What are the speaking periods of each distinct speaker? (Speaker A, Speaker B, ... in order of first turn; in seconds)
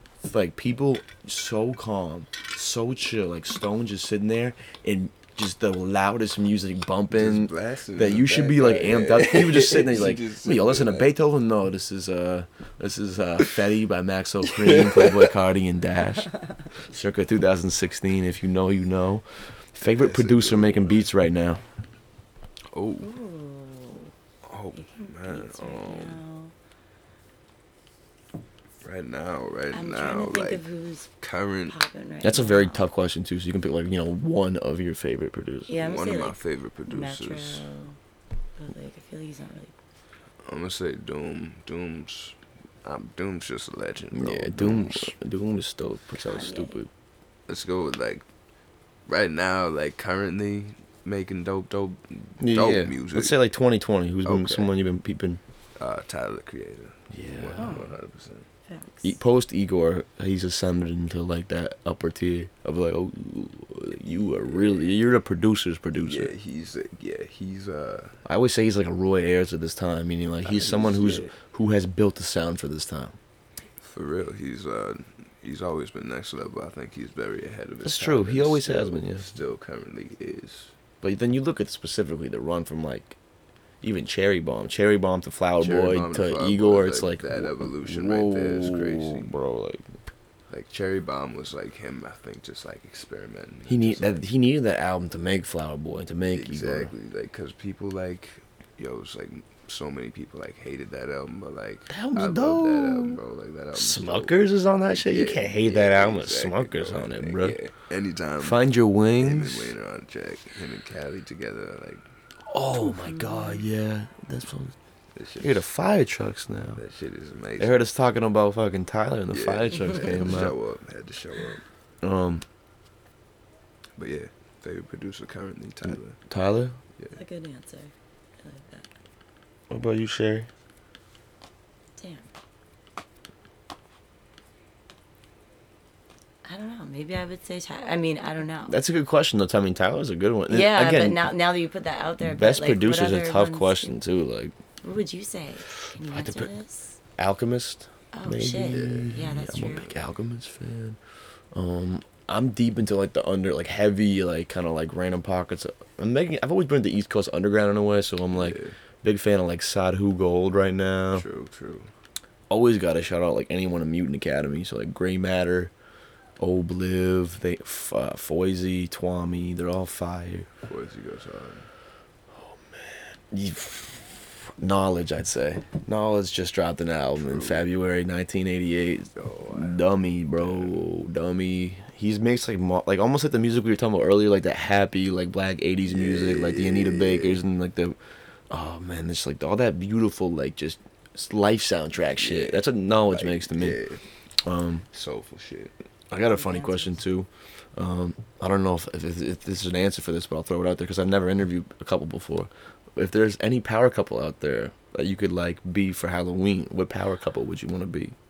Speaker A: 0.2-21.7, 32.2-35.7, 44.1-46.9, 52.4-55.4, 57.1-57.8, 59.0-66.3, 68.2-73.2, 77.8-79.2, 81.0-83.2, 83.8-89.9, 93.7-96.9, 101.9-103.2, 103.7-107.6, 108.4-109.7, 112.5-114.7, 115.4-116.8, 117.6-120.5, 122.0-122.4, 125.9-126.8, 129.7-130.5, 138.7-141.2, 142.2-144.5, 146.0-146.5, 147.2-151.0, 151.5-161.2, 162.5-165.7, 166.4-170.5, 172.3-188.0, 188.5-193.8, 194.4-194.8, 196.1-208.1
Speaker B: 7.1-11.1, 14.5-15.3, 19.9-21.1, 22.7-23.1, 24.4-26.2, 28.8-30.6, 31.2-31.8, 35.8-37.7, 40.4-45.1, 47.5-48.3, 49.1-53.4, 54.2-54.7, 55.8-58.5, 64.0-64.9, 65.9-68.2, 70.4-71.3, 73.8-80.8, 85.6-89.3, 90.5-94.2, 96.3-112.1, 115.2-115.7, 116.8-117.8, 119.3-121.6, 124.0-126.2, 148.7-149.9, 158.3-158.8, 161.1-161.9, 170.6-171.7, 177.2-177.7, 179.2-179.8, 180.3-180.8, 185.8-187.4, 192.2-194.0, 194.9-195.7
Speaker C: 23.0-24.1, 24.7-26.5, 29.7-31.1, 31.7-32.8, 35.7-38.0, 38.5-39.7, 46.2-46.8, 57.6-57.9, 58.7-59.2, 112.8-113.7, 127.1-128.9, 132.0-132.2, 136.4-138.8, 140.5-143.9, 144.8-147.0, 148.1-149.9, 196.2-197.0